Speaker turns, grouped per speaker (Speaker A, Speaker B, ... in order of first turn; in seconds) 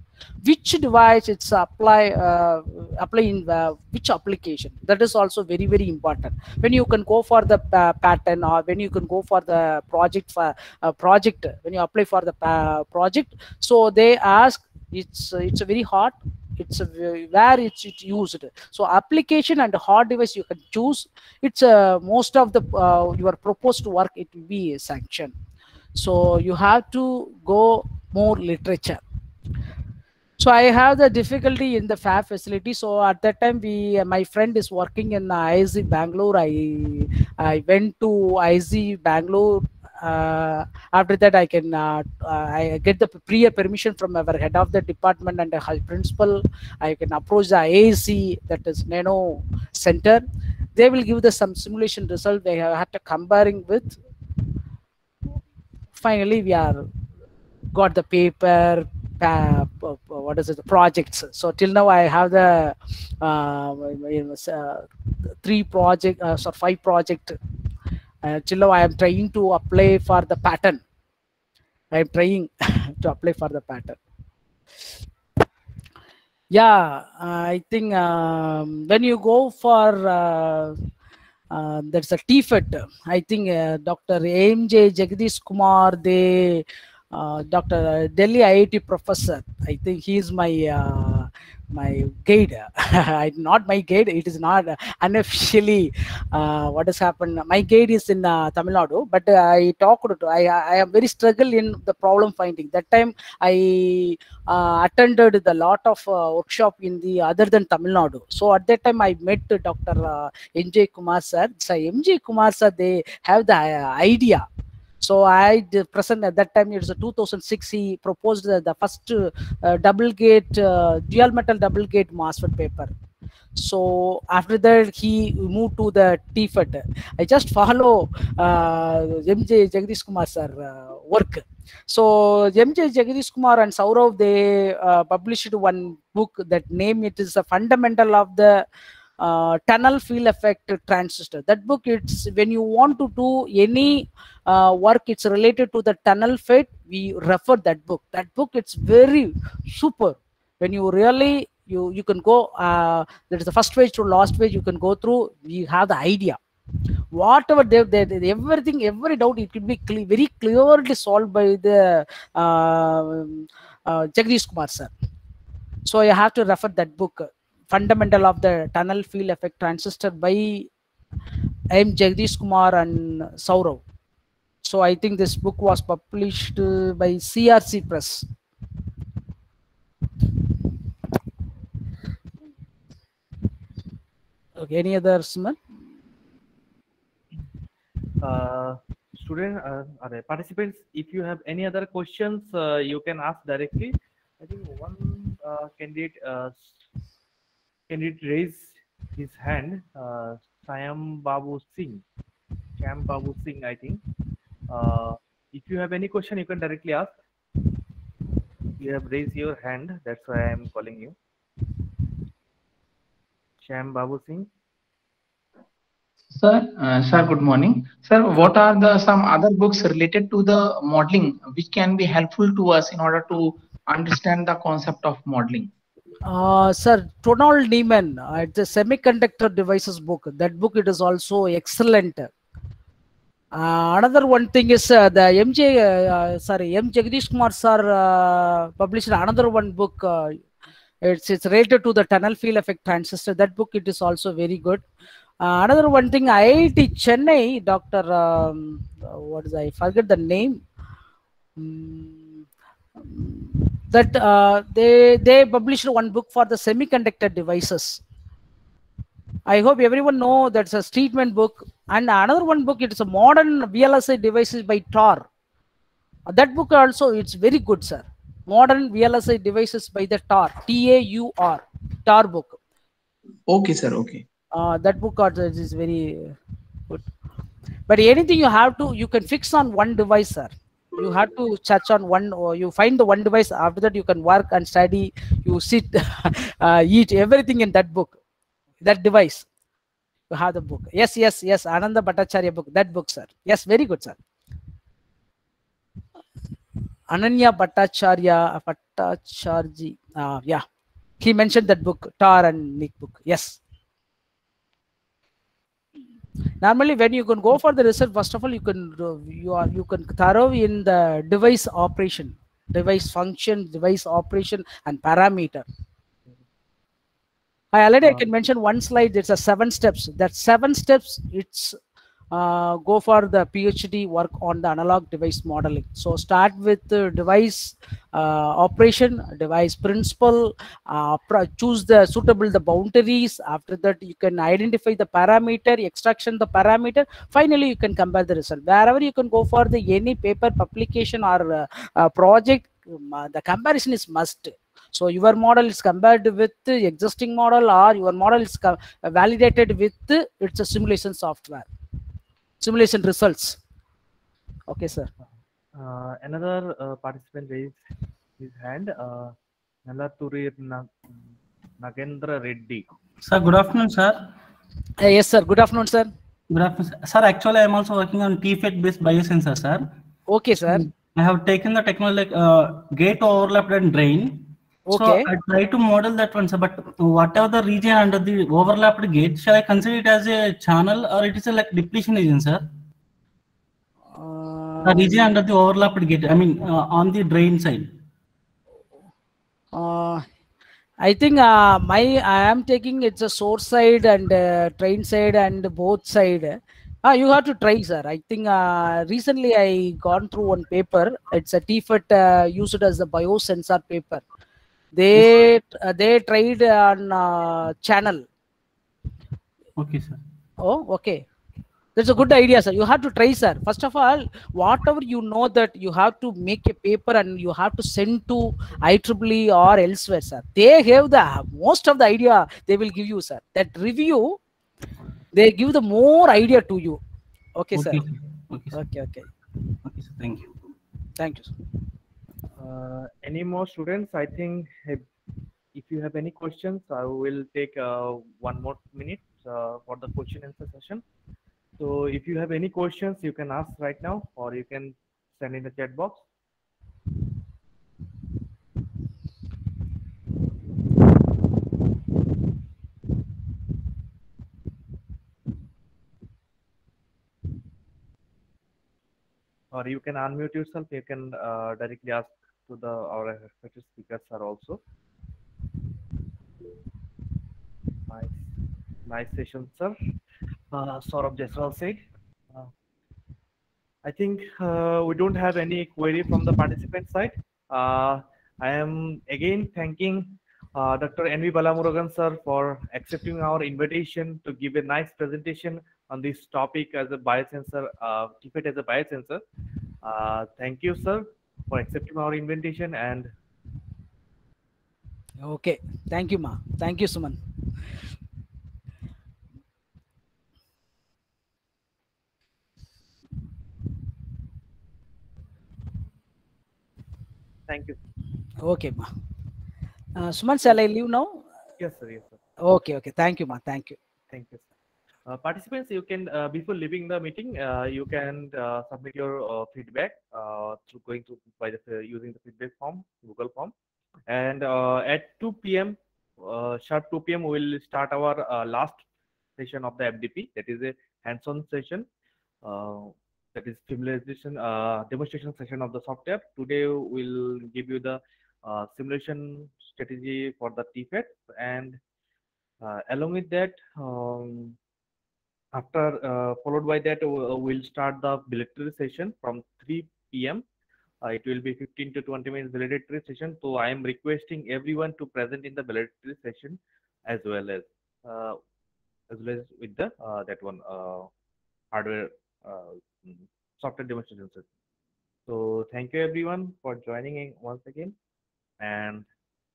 Speaker A: 0.4-25.3, 25.9-29.0, 30.4-50.2, 50.7-54.0, 55.9-56.8, 57.7-67.4, 68.2-70.8, 71.9-74.0, 76.5-80.8, 81.5-114.4, 115.0-122.9, 123.5-138.6, 139.2-156.4, 157.1-164.9, 165.8-170.7, 171.7-173.8, 174.6-178.2, 184.6-185.6, 226.2-232.3, 233.6-240.4, 241.0-244.8, 245.4-250.6, 251.6-252.4, 253.0-258.0, 259.5-265.2, 266.3-272.6, 274.5-276.3, 277.9-288.1, 288.8-289.4, 290.3-294.2, 297.1-300.6, 301.2-303.6, 306.6-315.6, 317.7-321.8, 322.3-351.7, 352.6-353.6, 354.7-355.1, 365.0-366.1, 370.3-370.9, 374.9-375.3, 384.1-385.2, 389.7-390.2, 391.0-404.2, 404.9-408.2, 410.6-411.2, 411.9-424.4, 425.3-427.0, 427.6-428.0, 428.7-429.3, 431.2-431.5, 495.4-497.4, 508.6-509.1, 510.1-511.4, 512.6-514.0
Speaker B: 188.2-196.8, 197.9-202.0, 202.8-204.0, 204.7-207.1, 208.8-211.2, 213.6-214.5, 355.7-357.8, 358.4-359.3, 359.9-360.9, 361.8-362.9, 432.6-435.1, 435.7-441.0, 441.8-446.2, 459.7-464.8, 468.1-468.5, 469.1-469.9, 470.7-472.7, 474.0-489.4, 490.0-493.3, 507.7-508.0, 511.8-512.4, 514.3-514.7, 515.2-523.7, 524.3-529.0, 529.6-532.0, 532.6-542.0, 542.8-544.8, 545.7-550.6, 551.2-558.6, 559.3-561.3, 561.9-564.6, 565.5-568.1, 568.8-569.2
Speaker C: 216.3-225.7, 273.5-274.2
Speaker D: 363.2-364.2, 366.5-369.9, 370.7-382.6, 384.8-387.9, 409.8-410.2, 427.8-428.7, 429.8-430.5